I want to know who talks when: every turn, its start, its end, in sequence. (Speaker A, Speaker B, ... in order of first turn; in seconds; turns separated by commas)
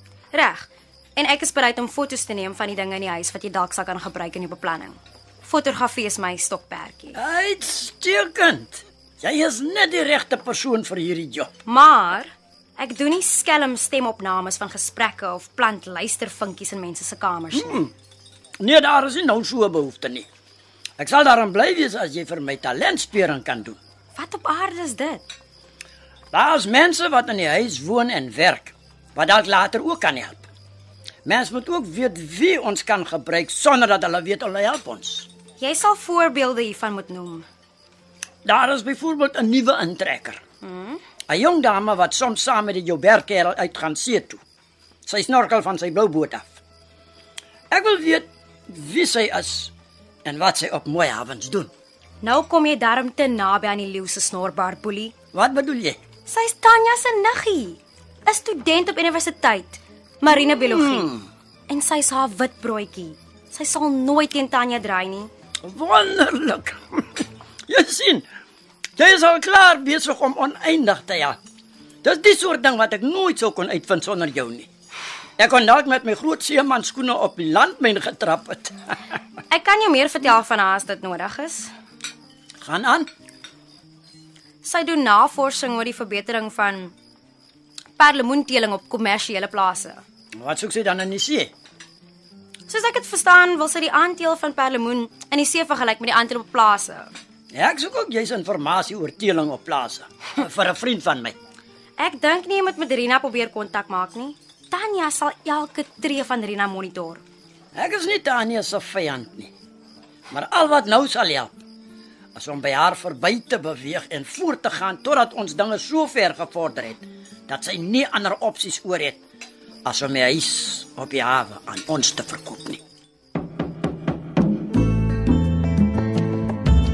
Speaker A: 0.3-7.2, Speaker B: 7.2-11.5, Speaker A: 11.7-17.9, Speaker B: 17.5-17.9, Speaker B: 18.6-20.3, Speaker B: 21.0-23.8, Speaker A: 24.1-25.3, Speaker B: 26.3-30.5, Speaker B: 31.3-35.3, Speaker A: 35.6-37.5, Speaker B: 38.5-40.4, Speaker A: 40.6-41.0, Speaker B: 41.3-44.4, Speaker B: 45.1-46.6, Speaker B: 47.7-49.7, Speaker B: 50.2-51.7, Speaker A: 52.2-55.1, Speaker B: 55.3-56.0, Speaker A: 56.3-61.1, Speaker B: 60.4-61.3, Speaker A: 61.7-65.3, Speaker B: 65.6-68.2, Speaker B: 69.0-71.4, Speaker B: 72.0-74.7, Speaker B: 75.4-78.8, Speaker A: 79.5-81.7, Speaker B: 82.6-83.1, Speaker A: 84.6-86.9, Speaker A: 88.0-90.0, Speaker B: 90.4-91.5, Speaker A: 92.7-97.1, Speaker B: 97.5-101.4, Speaker A: 102.0-107.2, Speaker B: 107.8-109.5, Speaker B: 110.3-111.6, Speaker B: 112.3-119.2, Speaker B: 119.9-122.8